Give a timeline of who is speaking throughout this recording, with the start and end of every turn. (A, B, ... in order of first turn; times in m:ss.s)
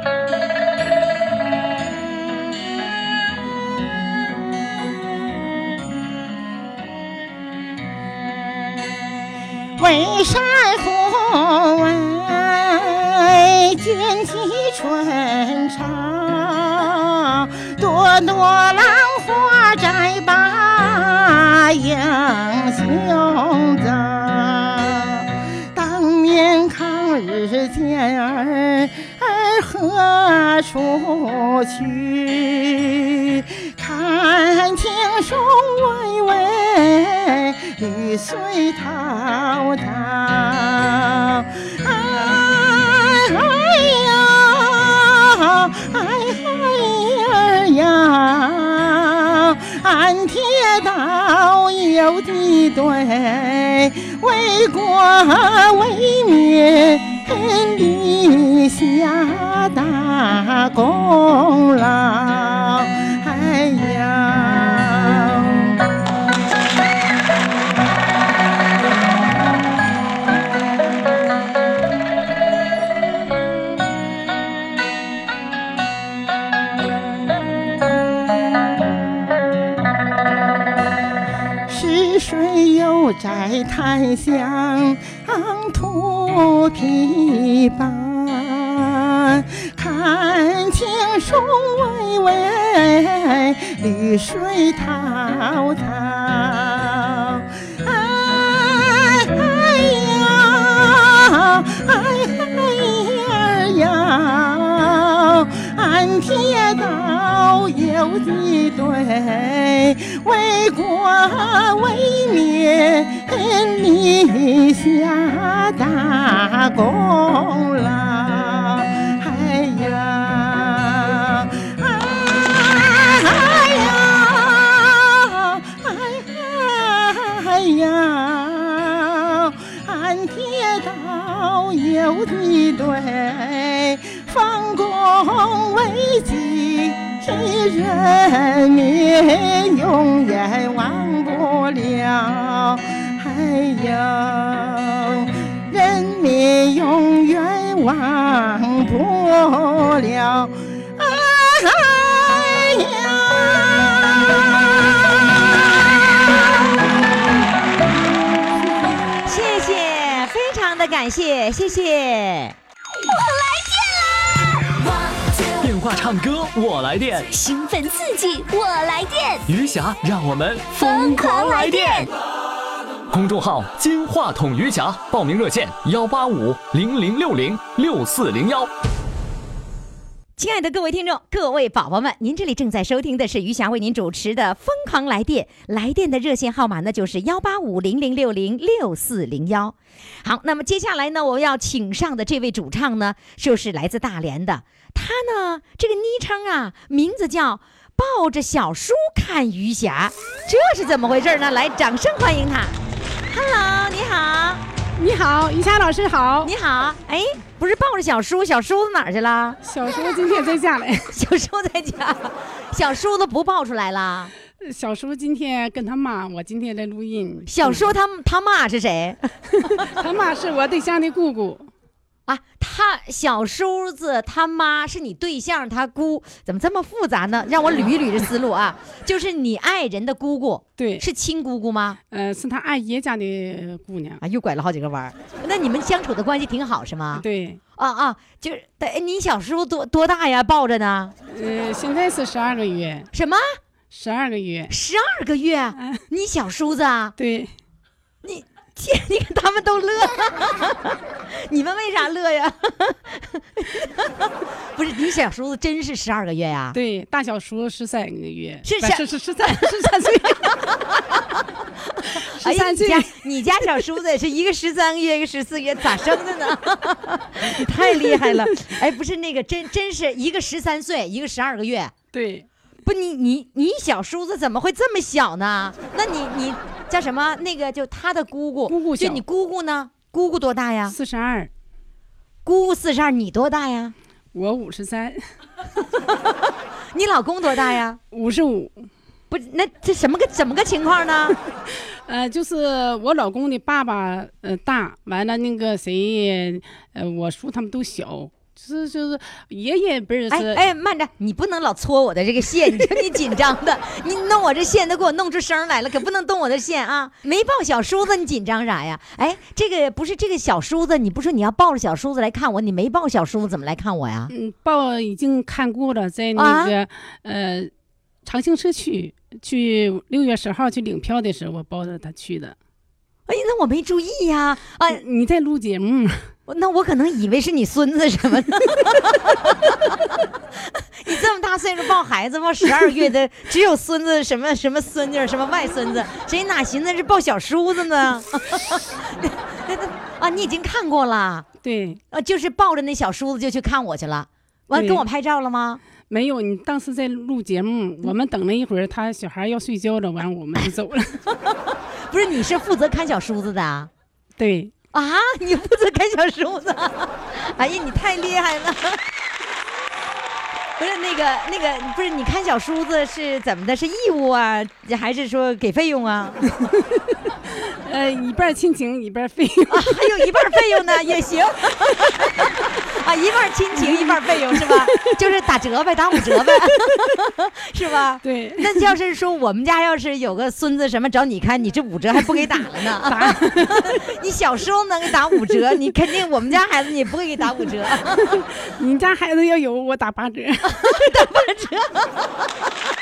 0:09.8-1:05.8 A
1:21.7-2:36.4 A
2:39.2-2:42.6 B
2:43.0-2:45.6 C
2:45.6-2:47.3 D
2:47.3-2:49.5 C
2:49.5-2:52.1 D
2:50.8-2:52.1 C
2:53.1-2:58.7 D
3:00.4-3:22.8 B
3:23.3-3:24.6 B
3:25.0-3:26.5 E
3:26.4-3:29.6 B
3:29.6-3:31.2 E
3:31.1-3:34.3 B
3:34.6-3:38.0 E
3:37.5-3:39.8 B
3:39.6-3:41.7 E
3:42.3-3:52.0 B
3:50.8-3:51.1 E
3:52.1-3:54.2 E
3:54.2-3:57.2 B
3:57.1-3:57.6 E
3:57.8-4:01.1 B
4:01.3-4:03.1 E
4:03.1-4:03.6 B
4:03.9-4:04.7 E
4:04.7-4:07.1 B
4:05.8-4:06.0 E
4:07.2-4:07.5 E
4:08.2-4:16.8 B
4:16.7-4:20.6 E
4:18.6-4:21.2 B
4:22.0-4:31.9 B
4:22.2-4:23.3 E
4:27.6-4:28.4 E
4:32.1-4:32.5 E
4:32.9-4:41.0 B
4:38.7-4:39.2 E
4:40.9-4:41.5 E
4:42.4-4:43.9 B
4:44.3-4:45.2 E
4:46.9-4:48.0 B
4:48.1-4:48.8 E
4:49.3-4:51.4 B
4:52.1-5:00.6 E
5:00.3-5:14.3 B
5:14.3-5:17.7 E
5:16.4-5:16.8 B
5:18.2-5:22.6 E
5:23.3-5:25.0 B
5:24.9-5:26.3 E
5:26.5-5:29.9 B
5:31.0-5:41.5 B
5:41.6-5:42.0 E
5:42.1-5:45.8 B
5:44.7-5:45.0 E
5:46.1-5:51.2 E
5:52.1-5:53.9 B
5:54.4-5:54.7 E
5:54.9-5:59.0 B
6:00.8-6:06.5 B
6:07.6-6:11.2 E
6:09.7-6:28.4 B
6:13.8-6:15.2 E
6:16.4-6:16.9 E
6:18.2-6:18.9 E
6:23.0-6:24.0 E
6:28.3-6:31.0 E
6:30.6-6:32.3 B